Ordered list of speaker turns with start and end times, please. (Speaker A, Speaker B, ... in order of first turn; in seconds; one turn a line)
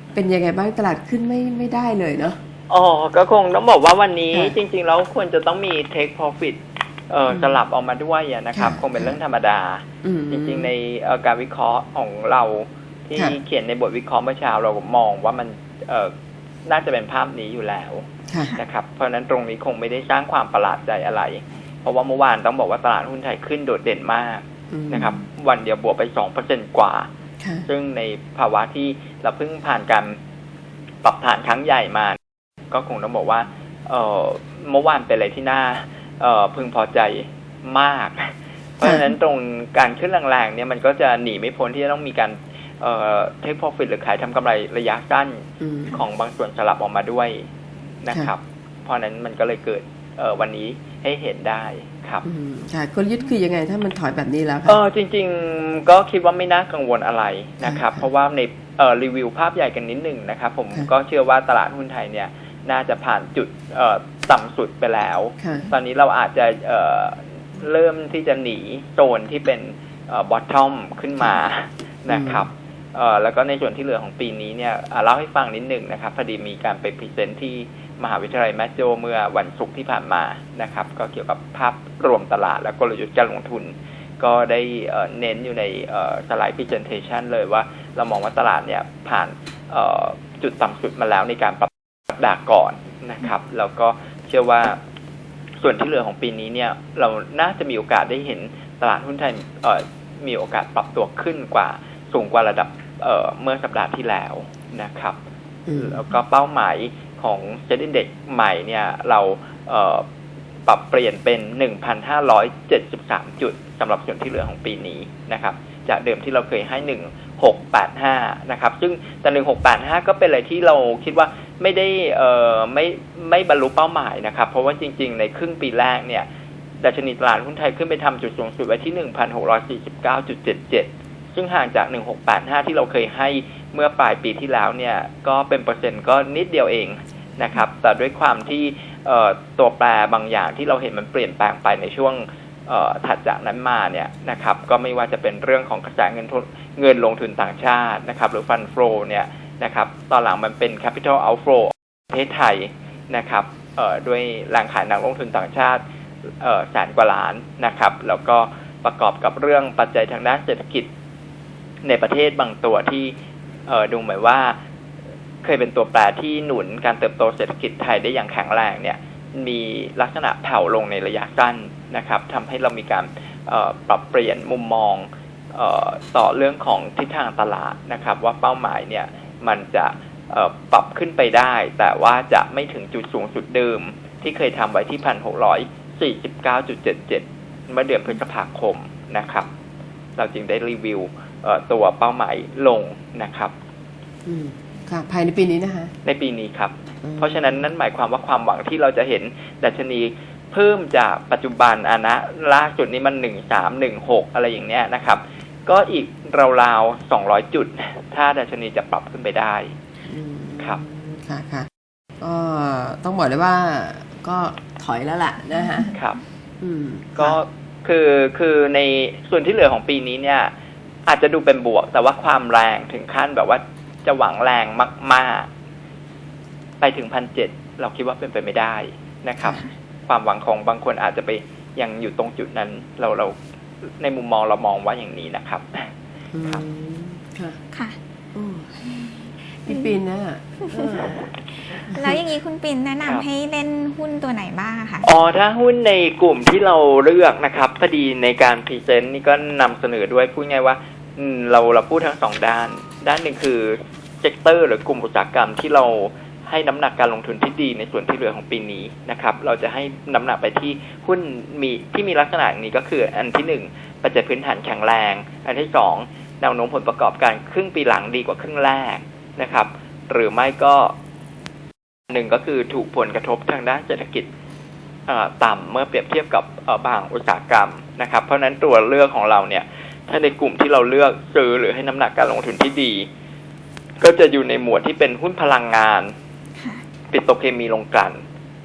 Speaker A: 0.1-2.4
Speaker B: 2.7-16.1
Speaker A: 4.3-4.6
Speaker A: 7.3-7.6
Speaker A: 8.5-9.2
Speaker A: 10.0-10.7
Speaker B: 16.7-27.1
Speaker A: 18.3-18.6
Speaker A: 24.7-25.2
Speaker B: 27.6-30.2
Speaker B: 31.0-32.2
Speaker B: 32.7-47.5
Speaker A: 45.6-46.0
Speaker B: 48.0-52.2
Speaker A: 52.2-54.8
Speaker B: 54.7-94.8
Speaker A: 57.6-58.0
Speaker A: 65.4-65.7
Speaker A: 72.1-72.5
Speaker B: 95.6-105.2
Speaker A: 105.7-106.0
Speaker B: 105.8-110.0
Speaker B: 110.7-126.2
Speaker B: 126.8-155.8
Speaker B: 156.4-160.9
Speaker B: 161.8-163.1
Speaker B: 163.7-164.6
Speaker B: 165.4-189.5
Speaker B: 190.2-193.5
Speaker A: 194.2-195.9
Speaker B: 196.0-209.7
Speaker A: 197.0-197.5
Speaker A: 210.1-211.7
Speaker A: 212.2-215.9
Speaker B: 215.9-216.2
Speaker A: 216.6-217.4
Speaker B: 217.2-220.5
Speaker B: 221.1-225.5
Speaker B: 226.8-233.4
Speaker B: 234.0-235.8
Speaker A: 236.3-237.6
Speaker A: 238.3-238.8
Speaker C: 239.0-239.9
Speaker A: 239.7-241.2
Speaker C: 241.8-245.1
Speaker B: 245.0-270.9
Speaker B: 272.1-274.3
Speaker B: 275.1-283.1
Speaker B: 284.0-286.1
Speaker B: 287.1-288.2